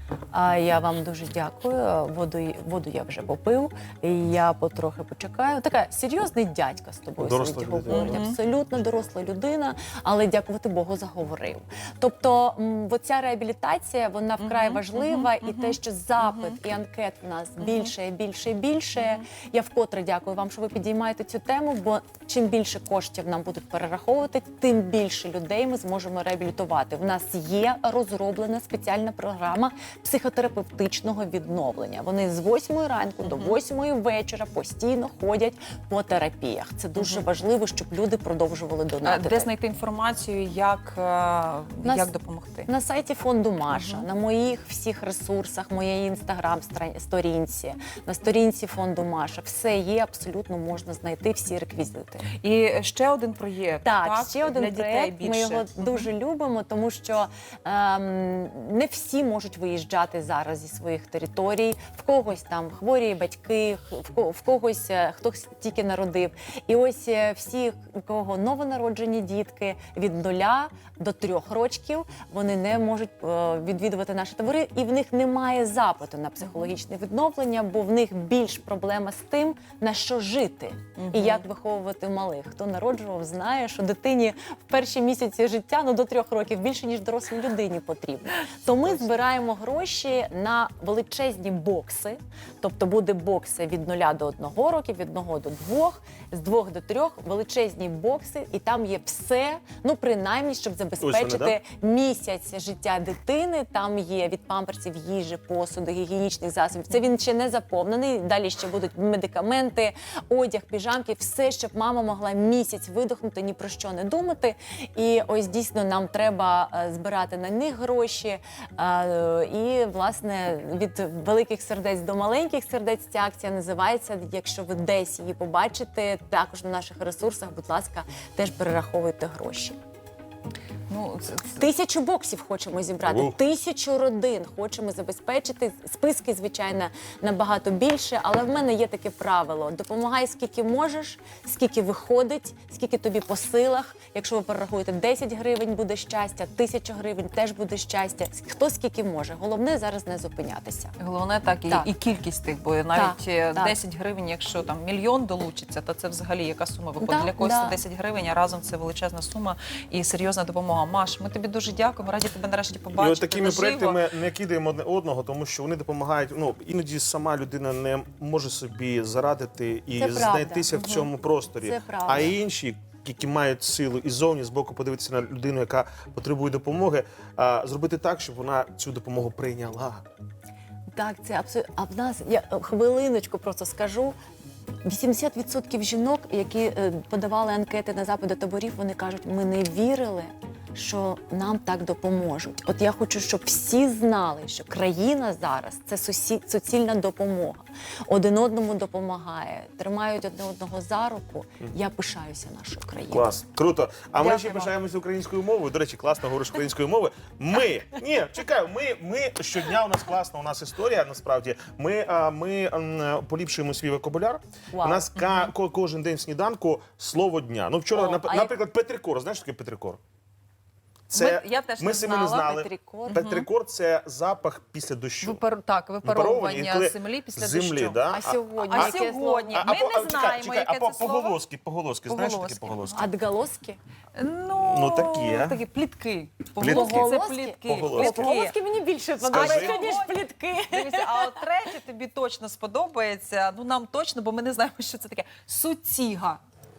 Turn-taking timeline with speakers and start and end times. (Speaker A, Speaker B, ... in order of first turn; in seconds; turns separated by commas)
Speaker A: 0.3-39.5, Speaker B: 7.2-8.2, Speaker C: 7.9-8.4, Speaker C: 14.4-16.6, Speaker C: 17.6-17.9, Speaker C: 19.0-19.2, Speaker C: 33.2-33.6, Speaker C: 37.0-37.2, Speaker C: 39.0-42.7, Speaker A: 41.8-42.1, Speaker A: 42.7-52.3, Speaker C: 43.7-44.0, Speaker C: 52.3-56.1, Speaker A: 53.8-129.8, Speaker C: 81.0-81.4, Speaker B: 101.0-101.6, Speaker C: 130.9-131.6, Speaker A: 131.5-150.9, Speaker B: 133.1-133.3, Speaker C: 151.0-164.0, Speaker A: 152.9-153.8, Speaker A: 157.0-157.8, Speaker B: 162.9-180.0, Speaker A: 169.9-170.7, Speaker C: 170.7-171.1, Speaker A: 171.6-172.4, Speaker A: 180.9-184.2, Speaker A: 184.8-203.4, Speaker B: 203.1-220.0, Speaker C: 204.2-204.7, Speaker A: 214.7-215.1, Speaker C: 215.2-215.5, Speaker A: 217.9-218.6, Speaker B: 221.1-225.4, Speaker C: 221.1-223.5, Speaker A: 222.4-223.2, Speaker C: 225.2-228.0, Speaker B: 226.0-229.0, Speaker A: 228.1-229.7, Speaker C: 228.6-231.4, Speaker B: 229.5-233.0, Speaker C: 232.0-233.1, Speaker A: 232.9-233.8, Speaker C: 234.2-238.5, Speaker B: 234.5-235.6, Speaker B: 236.6-237.1, Speaker A: 236.6-241.4, Speaker B: 237.6-238.2, Speaker B: 239.2-239.9, Speaker C: 239.3-246.4